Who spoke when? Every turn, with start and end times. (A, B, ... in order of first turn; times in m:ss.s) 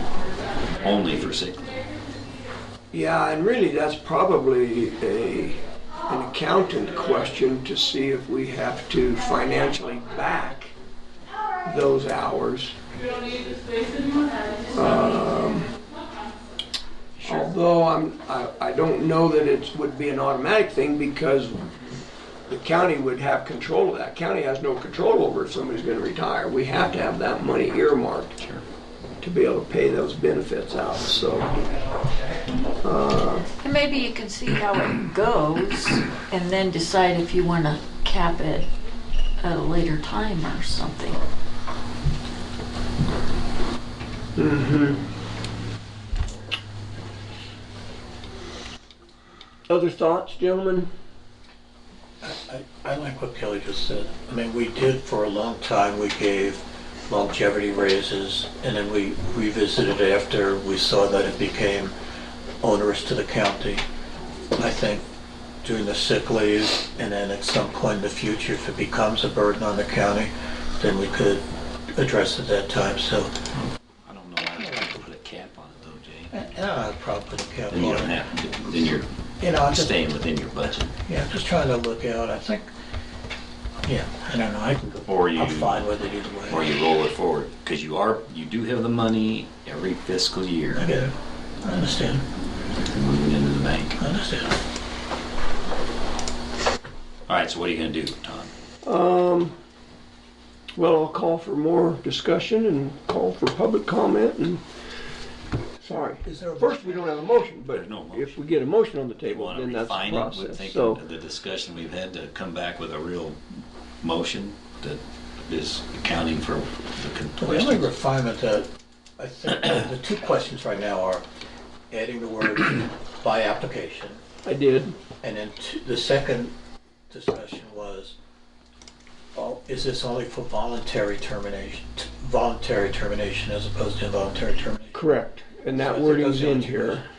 0:00.8-0:01.9 A
0:02.9-0:10.7 B
0:11.6-0:12.8 B
0:14.7-0:15.7 B
0:17.2-0:21.7 B
0:22.5-0:28.4 B
0:28.4-0:28.6 A
0:29.2-0:31.6 B
0:32.8-0:33.5 B
0:33.6-0:38.7 C
0:39.4-0:41.2 C
0:44.4-0:45.0 B
0:49.7-0:50.9 B
0:52.2-1:01.9 D
1:02.6-1:03.8 D
1:04.6-1:05.0 D
1:05.6-1:13.4 D
1:14.0-1:16.3 A
1:14.6-1:14.9 D
1:16.3-1:18.2 D
1:17.7-1:21.0 A
1:19.4-1:20.0 D
1:21.1-1:22.7 D
1:23.8-1:26.8 D
1:25.1-1:25.9 A
1:26.5-1:30.9 A
1:30.7-1:32.2 D
1:32.8-1:34.0 A
1:34.0-1:34.6 D
1:37.3-1:38.5 A
1:38.8-1:39.5 B
1:40.8-1:44.6 B
1:45.8-1:51.0 B
1:46.1-1:47.4 D
1:47.7-1:48.6 A
1:49.2-1:53.4 A
1:54.0-1:57.9 A
1:57.4-2:01.2 D
2:01.9-2:04.2 D
2:04.4-2:05.0 B
2:05.2-2:06.5 D
2:07.1-2:08.2 D
2:09.3-2:15.0 D
2:14.9-2:17.1 B
2:15.8-2:17.0 D